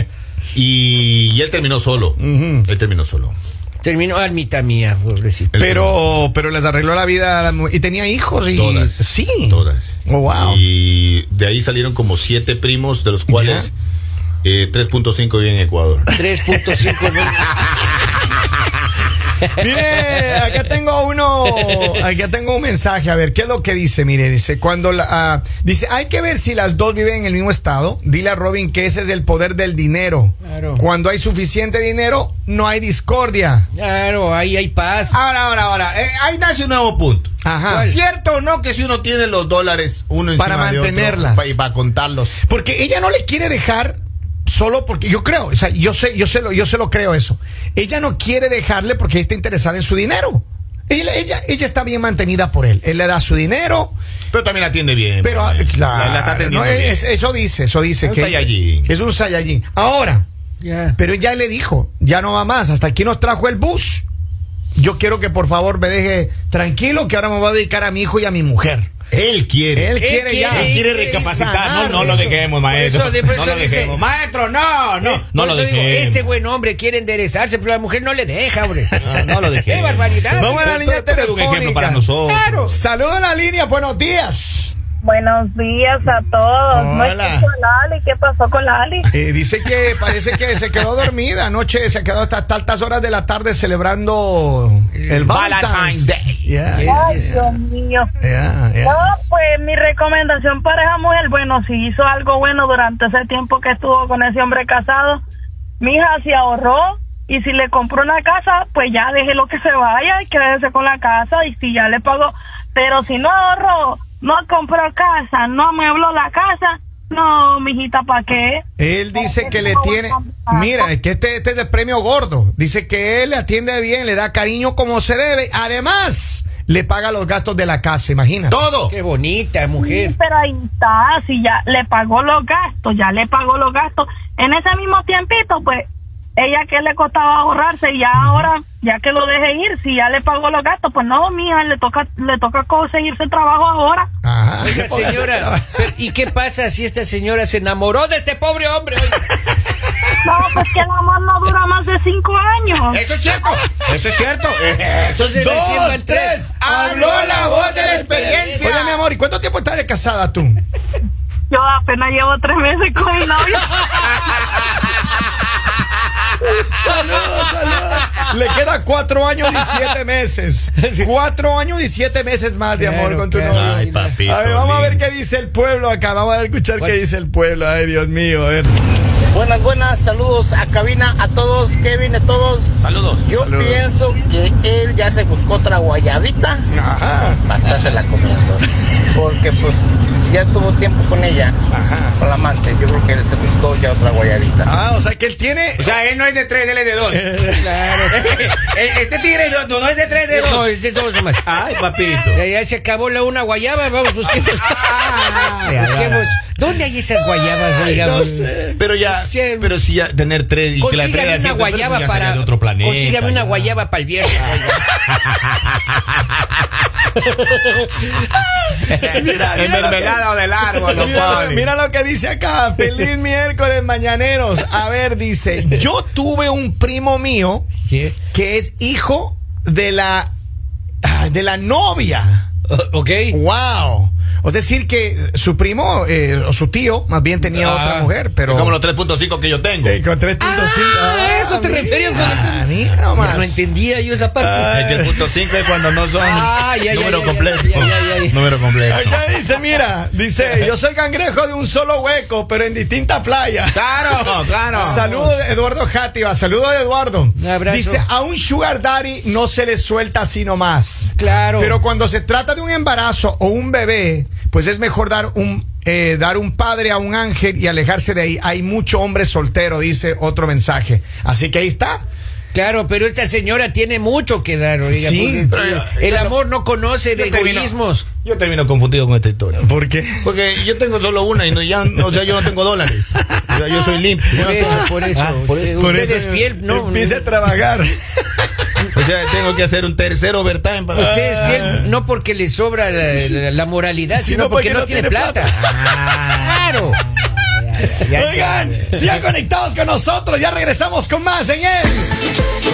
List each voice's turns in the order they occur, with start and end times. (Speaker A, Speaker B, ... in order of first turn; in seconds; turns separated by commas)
Speaker A: 0.5-3.4, Speaker B: 2.2-2.7, Speaker C: 3.8-5.5, Speaker A: 5.5-5.9, Speaker B: 5.5-10.6, Speaker A: 8.5-13.7, Speaker B: 13.3-13.7, Speaker A: 14.4-16.1, Speaker C: 16.1-17.5, Speaker B: 19.5-33.7, Speaker C: 30.4-30.8, Speaker C: 33.8-35.2, Speaker A: 35.1-42.4, Speaker B: 37.4-37.9, Speaker C: 37.7-38.0, Speaker B: 40.4-41.5, Speaker B: 42.4-54.0, Speaker A: 54.3-57.1, Speaker B: 55.2-60.3, Speaker A: 58.0-58.9, Speaker C: 60.6-61.0, Speaker B: 61.0-64.0, Speaker B: 64.8-68.9, Speaker A: 69.1-70.0, Speaker B: 69.7-72.4, Speaker C: 70.0-74.0, Speaker A: 70.5-76.3, Speaker C: 75.0-79.0, Speaker A: 79.0-82.8, Speaker C: 79.7-80.7, Speaker B: 80.4-82.0, Speaker C: 82.3-82.7, Speaker B: 82.7-84.7, Speaker D: 85.0-89.1, Speaker B: 86.7-87.5, Speaker B: 89.1-97.4, Speaker A: 95.2-96.8, Speaker C: 96.7-97.5, Speaker D: 96.8-98.1, Speaker B: 98.2-99.1, Speaker D: 98.8-105.2, Speaker D: 105.8-118.6, Speaker B: 118.8-128.6, Speaker D: 119.1-120.9, Speaker A: 128.5-128.9, Speaker C: 128.9-130.2, Speaker D: 129.8-135.8, Speaker D: 136.4-144.1, Speaker B: 144.2-145.9, Speaker C: 144.6-149.3, Speaker D: 150.2-153.1, Speaker A: 152.9-155.6, Speaker C: 155.2-158.8, Speaker B: 155.3-160.6, Speaker A: 156.6-159.0, Speaker D: 161.5-163.8, Speaker B: 166.8-178.8, Speaker C: 167.3-167.9, Speaker C: 169.5-169.9, Speaker C: 170.8-171.1, Speaker C: 172.8-174.2, Speaker A: 173.5-175.0, Speaker E: 179.3-182.7, Speaker A: 182.8-183.3, Speaker E: 183.2-186.7, Speaker B: 183.3-183.9, Speaker B: 186.7-187.4, Speaker E: 187.4-191.6, Speaker B: 191.7-192.2, Speaker E: 192.2-194.7, Speaker B: 194.6-195.9, Speaker A: 195.8-197.4, Speaker B: 197.1-198.5, Speaker C: 197.6-198.2, Speaker A: 198.1-200.7, Speaker C: 200.3-201.4, Speaker A: 201.4-202.4, Speaker C: 202.3-209.8, Speaker A: 204.3-206.4, Speaker B: 207.4-208.8, Speaker A: 208.8-213.8, Speaker C: 210.8-214.8, Speaker A: 214.5-216.2, Speaker C: 217.2-218.1, Speaker A: 218.9-221.7, Speaker B: 218.9-220.3, Speaker B: 220.9-227.7, Speaker C: 227.9-228.2, Speaker B: 228.3-230.3, Speaker B: 231.0-232.5, Speaker C: 232.7-233.4, Speaker B: 233.3-238.8, Speaker C: 237.4-238.1, Speaker A: 238.5-240.0, Speaker B: 239.8-243.6, Speaker C: 240.4-242.7, Speaker A: 242.1-242.4, Speaker C: 243.2-245.1, Speaker B: 244.4-245.2, Speaker A: 244.7-249.2, Speaker C: 246.2-248.4, Speaker B: 248.9-272.0, Speaker A: 253.7-255.1, Speaker C: 254.7-255.4, Speaker C: 257.4-258.1, Speaker C: 261.2-261.8, Speaker C: 272.5-278.1, Speaker B: 275.0-275.5, Speaker A: 275.5-276.4, Speaker A: 277.1-279.6, Speaker B: 279.6-280.5, Speaker A: 280.2-286.0, Speaker B: 282.0-282.5, Speaker B: 283.1-283.6, Speaker B: 284.3-285.1, Speaker C: 284.3-287.3, Speaker B: 285.8-288.5, Speaker A: 288.9-291.7, Speaker C: 290.9-295.6, Speaker B: 291.2-291.9, Speaker B: 293.1-293.4, Speaker B: 294.1-296.0, Speaker A: 295.6-299.1, Speaker C: 296.4-297.0, Speaker B: 298.0-302.1